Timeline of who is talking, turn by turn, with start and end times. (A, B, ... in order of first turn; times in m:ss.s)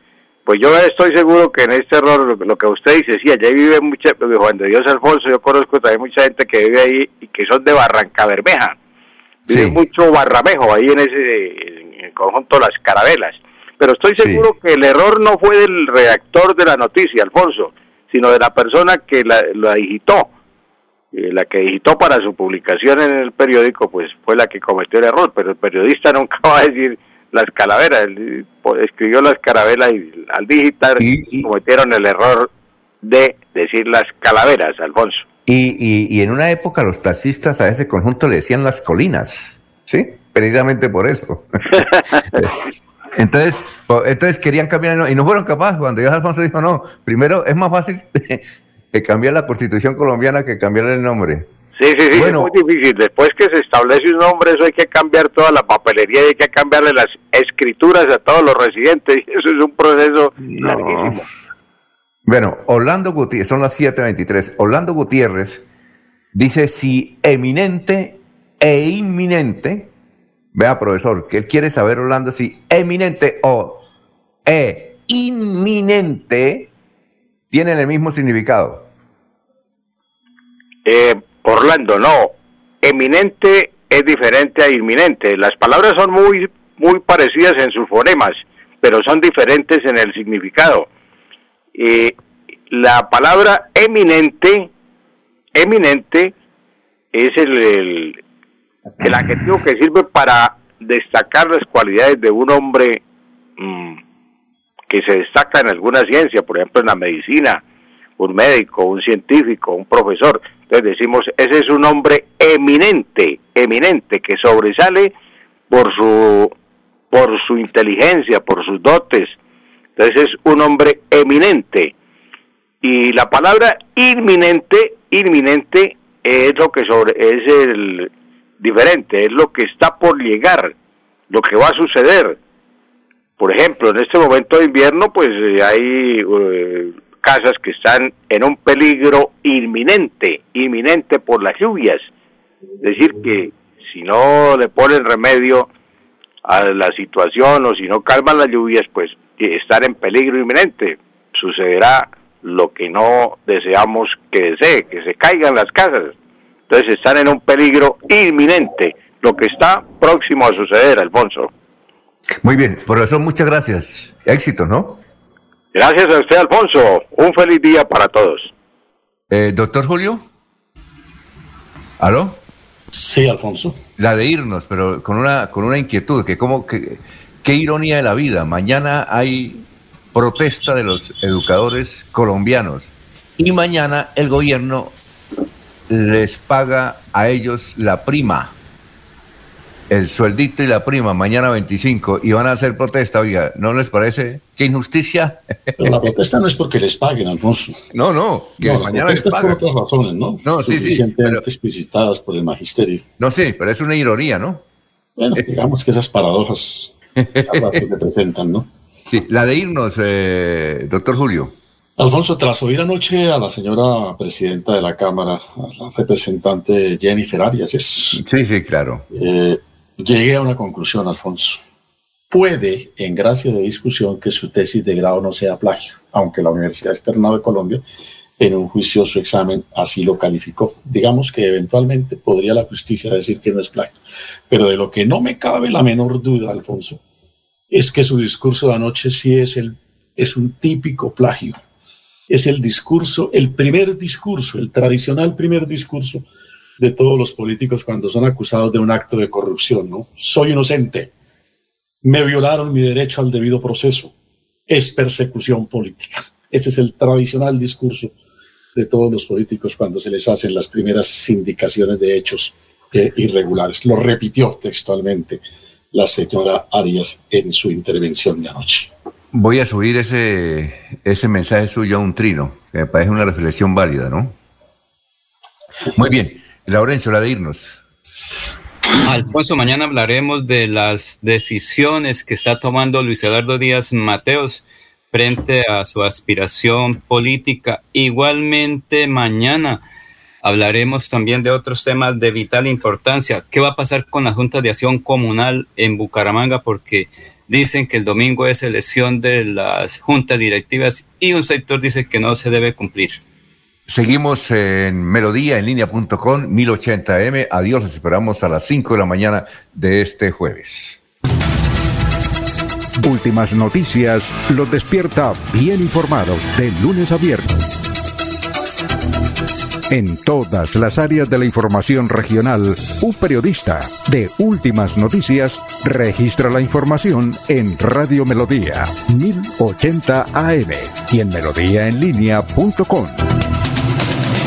0:00.5-0:08.8 A
0:09.5-0:09.8 B
0:09.5-0:20.3 A
0:14.2-0:14.5 B
0:21.1-0:32.5 A
0:31.0-0:31.5 B
0:33.0-0:35.2 A
0:35.5-0:42.6 B
0:43.2-0:51.5 B
0:51.8-1:01.2 A
0:52.1-0:52.5 B
1:00.4-1:01.2 B
1:02.3-1:05.6 B
1:06.3-1:09.9 B
1:10.5-1:13.8 B
1:14.5-1:16.7 B
1:17.5-1:18.9 B
1:20.8-1:30.9 A
1:31.8-1:32.2 A
1:32.7-1:34.7 A
1:35.6-1:36.3 A
1:37.1-1:38.2 A
1:39.0-1:43.0 A
1:39.0-1:39.4 B
1:43.6-1:44.0 A
1:44.9-1:47.6 A
1:48.2-1:55.1 A
1:55.7-1:56.5 A
1:57.1-1:59.3 A
2:00.0-2:01.9 A
2:02.8-2:08.1 A
2:08.6-2:10.7 A
2:11.3-2:12.4 A
2:13.4-2:22.1 A
2:22.8-2:25.7 A
2:26.4-2:36.1 A
2:36.7-2:41.5 A
2:42.4-2:45.0 B
2:45.7-2:48.5 A
2:49.3-2:50.2 B
2:52.0-2:52.4 B
2:52.9-2:53.8 C
2:54.0-3:04.9 B
3:05.9-3:08.5 B
3:09.9-3:15.8 B
3:15.8-3:17.8 C
3:17.9-3:19.6 B
3:18.6-3:23.0 C
3:20.4-3:21.4 B
3:23.2-3:24.6 B
3:25.2-3:26.9 C
3:27.2-3:27.8 B
3:27.5-3:28.7 C
3:29.1-3:31.5 B
3:32.0-3:38.2 C
3:38.2-3:39.1 B
3:39.1-3:41.6 C
3:42.3-3:47.8 C
3:48.4-3:54.0 C
3:54.5-3:57.0 C
3:57.7-4:01.6 C
4:02.3-4:06.2 C
4:06.8-4:11.1 C
4:12.0-4:14.1 C
4:14.7-4:18.2 C
4:18.8-4:28.9 C
4:29.3-4:34.4 B
4:36.0-4:37.8 B
4:39.0-4:49.8 D
4:50.4-5:03.2 D
5:03.9-5:11.0 B
5:13.0-5:17.6 E
5:19.9-5:33.3 E